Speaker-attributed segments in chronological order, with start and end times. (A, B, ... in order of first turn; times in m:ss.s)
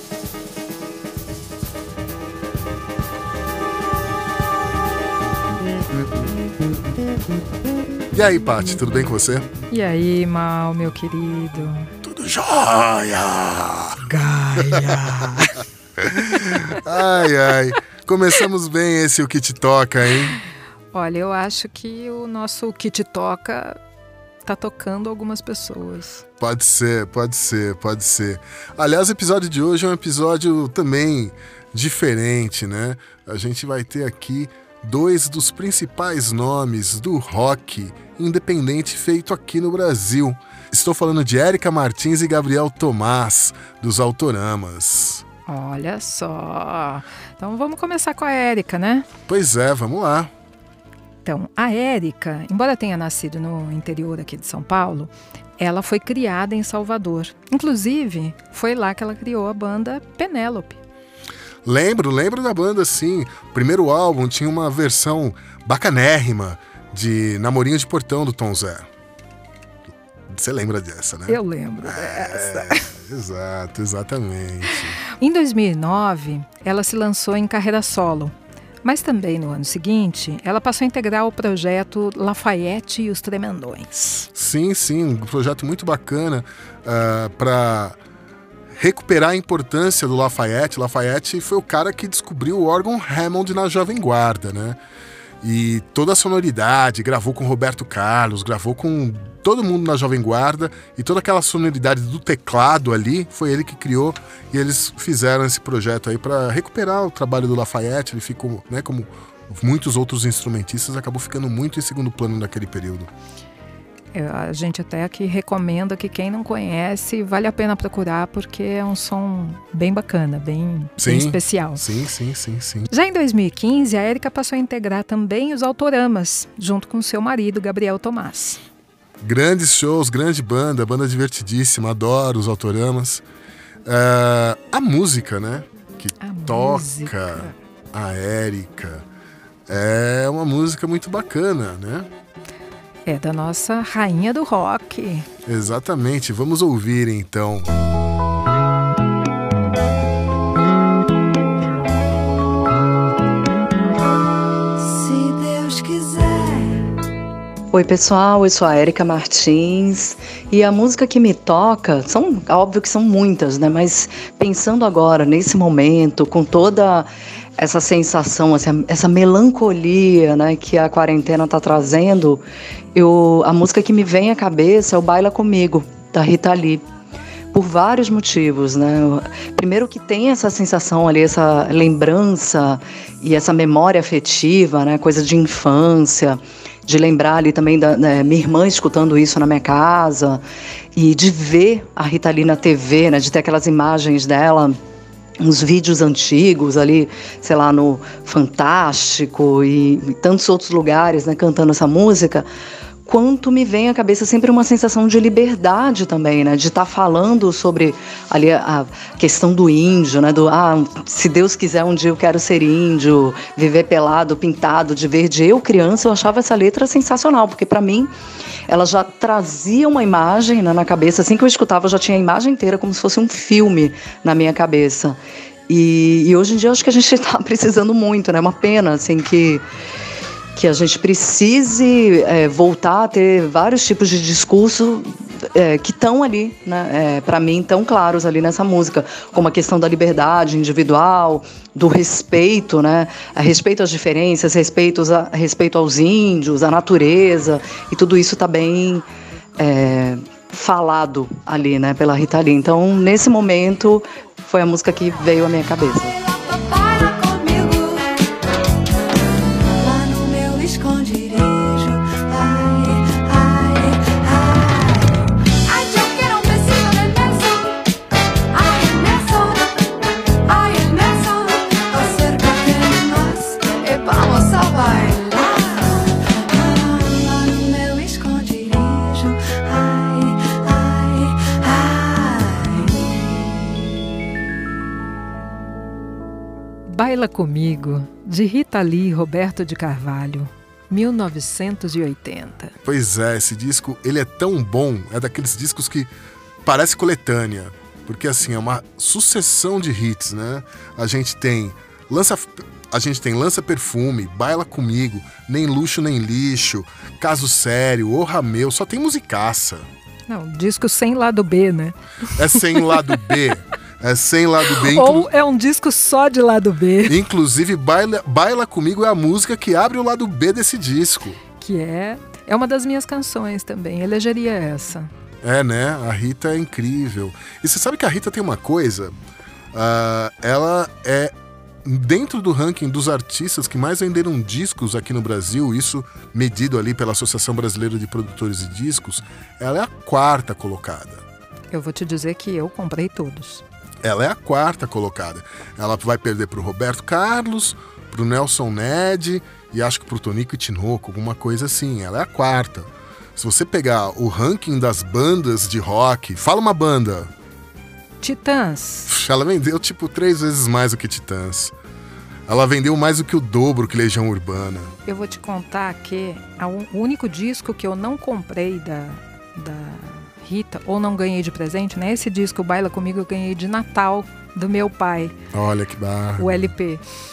0:08.1-0:09.5 A
0:09.7-0:11.9 B
0:12.0-0:14.0 A
0:14.0-0:15.6 B
0:14.6-0:15.2 A
0:16.0-0:20.4 A
0:20.9-0:23.8 B
0:24.4-0:26.2 B
0:26.4-0:45.2 A
0:45.5-0:49.0 B
0:49.3-0:50.3 A
0:51.2-1:00.8 B
1:01.6-1:08.9 A
1:10.3-1:15.0 A
1:11.3-1:12.9 B
1:15.1-1:24.3 B
1:24.3-1:28.0 A
1:28.8-1:34.8 A
1:35.4-1:53.1 A
1:54.1-2:01.8 B
2:01.0-2:02.9 A
2:02.9-2:08.6 B
2:09.2-2:13.2 A
2:13.8-2:19.0 A
2:16.2-2:17.5 B
2:19.7-2:22.1 A
2:23.0-2:25.2 B
2:25.4-2:27.7 A
2:35.1-2:36.9 C
2:37.7-2:52.4 D
2:52.9-2:56.8 D
2:57.5-3:10.4 D
3:10.9-3:14.8 D
3:15.4-3:22.5 D
3:23.0-3:38.1 D
3:38.7-3:49.6 D
3:50.5-4:09.0 D
4:09.6-4:16.1 D
4:16.3-4:18.3 C
4:19.4-4:27.8 C
4:28.5-4:29.9 C
4:30.4-4:43.8 C
4:46.9-4:52.7 B
4:52.8-4:56.1 A
4:56.6-5:09.9 A
5:10.3-5:12.0 B
5:12.4-5:15.3 A
5:12.5-5:13.1 B
5:14.7-5:17.2 B
5:17.0-5:21.4 A
5:21.6-5:25.1 B
5:25.4-5:29.1 A
5:29.7-5:31.3 A
5:31.8-5:41.2 A
5:41.7-5:43.6 B
5:44.0-5:57.3 A
5:58.2-5:59.1 B
5:59.1-6:01.7 A
6:02.5-6:04.9 A
6:05.0-6:15.3 B
6:15.5-6:16.7 A
6:16.4-6:17.0 B